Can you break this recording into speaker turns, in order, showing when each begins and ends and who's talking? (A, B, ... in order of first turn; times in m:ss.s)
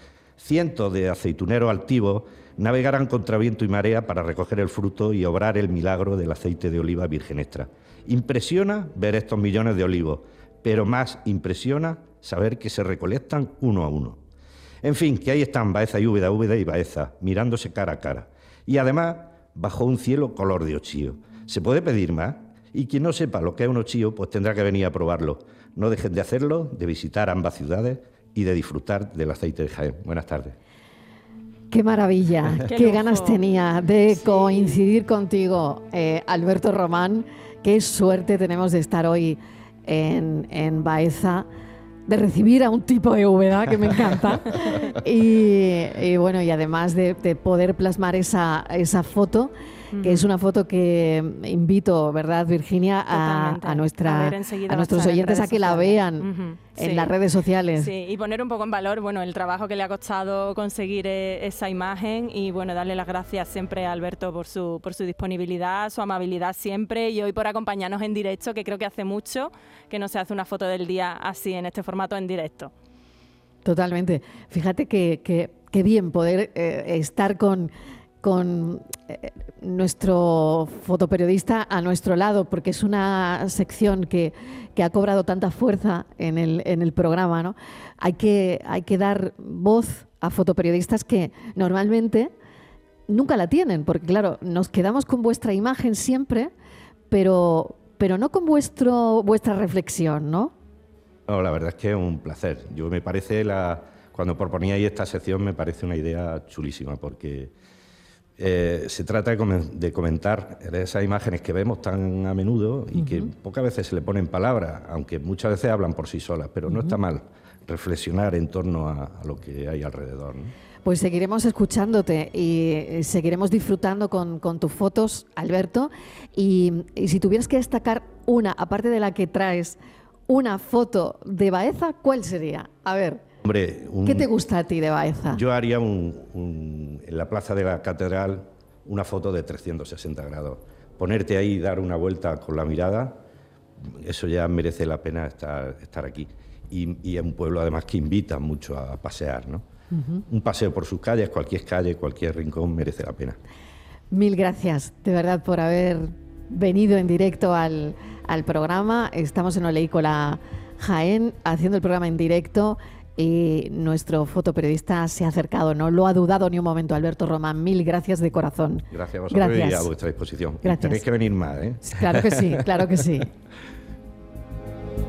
0:00.4-0:14.2 A
0:14.8-0:30.6 A
0:31.7-0:41.5 B
0:32.6-0:33.4 C
0:34.2-0:34.8 C
0:42.1-0:57.9 B
0:49.9-0:50.3 C
0:53.1-0:57.1 C
0:57.7-1:12.7 C
1:13.6-1:32.3 B
1:33.1-1:36.5 B
1:37.1-1:40.5 B
1:41.3-1:47.5 A
1:48.4-2:00.5 A
2:00.8-2:13.2 B
2:13.4-2:14.3 A
2:14.0-2:15.4 B
2:15.3-2:23.2 A
2:23.9-2:29.6 A
2:29.9-2:30.2 B
2:30.3-2:33.4 A
2:34.1-2:49.9 B
2:48.9-2:52.6 A
2:50.6-2:51.0 B
2:51.8-2:53.3 B